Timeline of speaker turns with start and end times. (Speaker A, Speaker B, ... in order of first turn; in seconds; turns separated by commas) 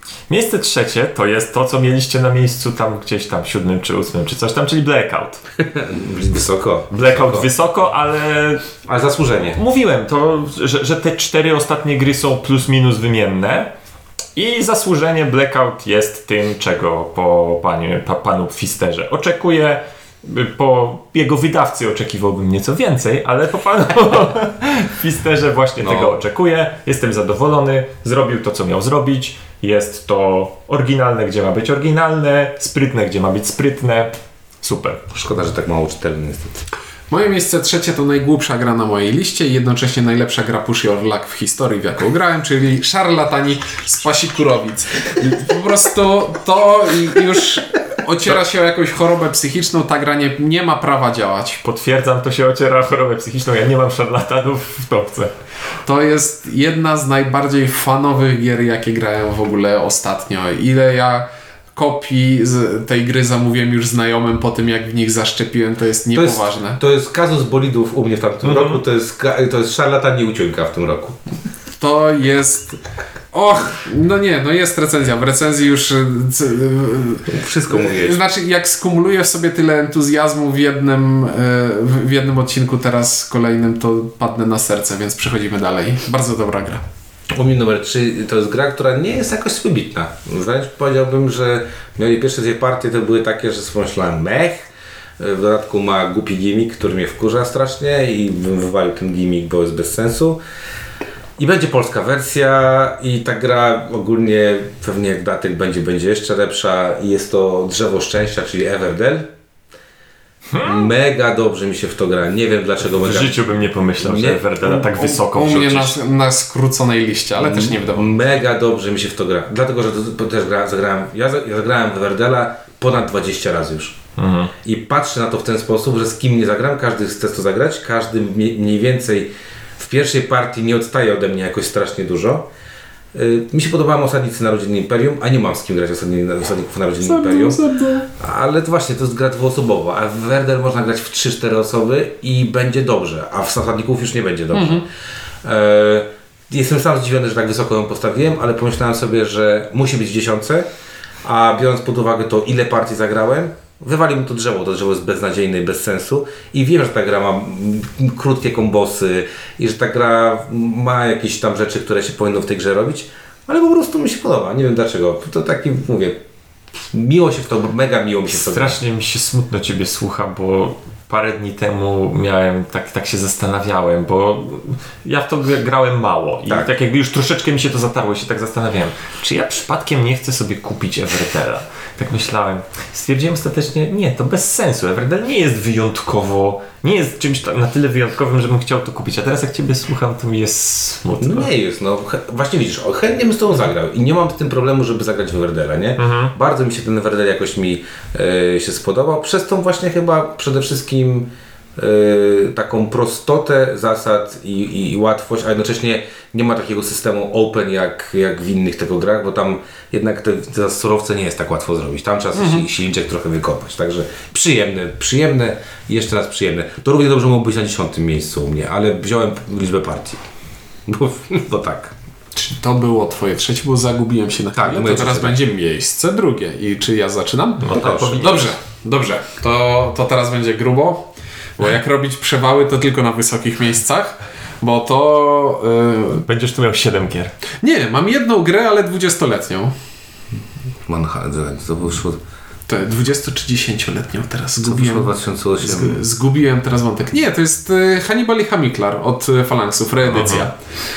Speaker A: 0.3-5.4, Speaker B: 5.7-7.5, Speaker A: 6.9-8.7, Speaker B: 8.9-9.6, Speaker A: 9.6-13.7, Speaker A: 14.4-35.0, Speaker B: 25.8-26.2, Speaker B: 35.1-36.6, Speaker C: 37.1-51.6, Speaker A: 51.6-55.3, Speaker C: 55.9-66.8, Speaker B: 66.1-71.2, Speaker A: 68.4-68.8, Speaker C: 71.8-72.8, Speaker C: 73.3-86.8, Speaker B: 77.3-78.2, Speaker B: 87.4-94.7, Speaker B: 95.2-100.4, Speaker B: 101.4-109.3, Speaker A: 110.5-110.9, Speaker B: 110.6-113.5, Speaker A: 112.9-116.0, Speaker B: 114.0-114.4, Speaker C: 114.6-118.1, Speaker B: 117.4-124.0, Speaker A: 124.2-124.5, Speaker B: 124.6-132.5, Speaker B: 133.1-137.6, Speaker C: 137.0-138.1, Speaker B: 138.2-144.8, Speaker C: 144.5-144.8, Speaker B: 145.4-150.7, Speaker B: 151.2-166.2, Speaker B: 166.9-168.8, Speaker A: 168.3-191.5, Speaker B: 191.2-220.2, Speaker A: 196.0-196.3, Speaker C: 212.3-212.7, Speaker B: 220.9-221.9, Speaker C: 222.3-236.2, Speaker B: 224.6-225.4, Speaker A: 227.6-228.5, Speaker B: 227.8-228.2, Speaker A: 236.2-237.3, Speaker C: 237.6-239.7, Speaker B: 240.9-242.2, Speaker C: 242.7-250.6, Speaker B: 244.6-246.0, Speaker A: 250.1-250.5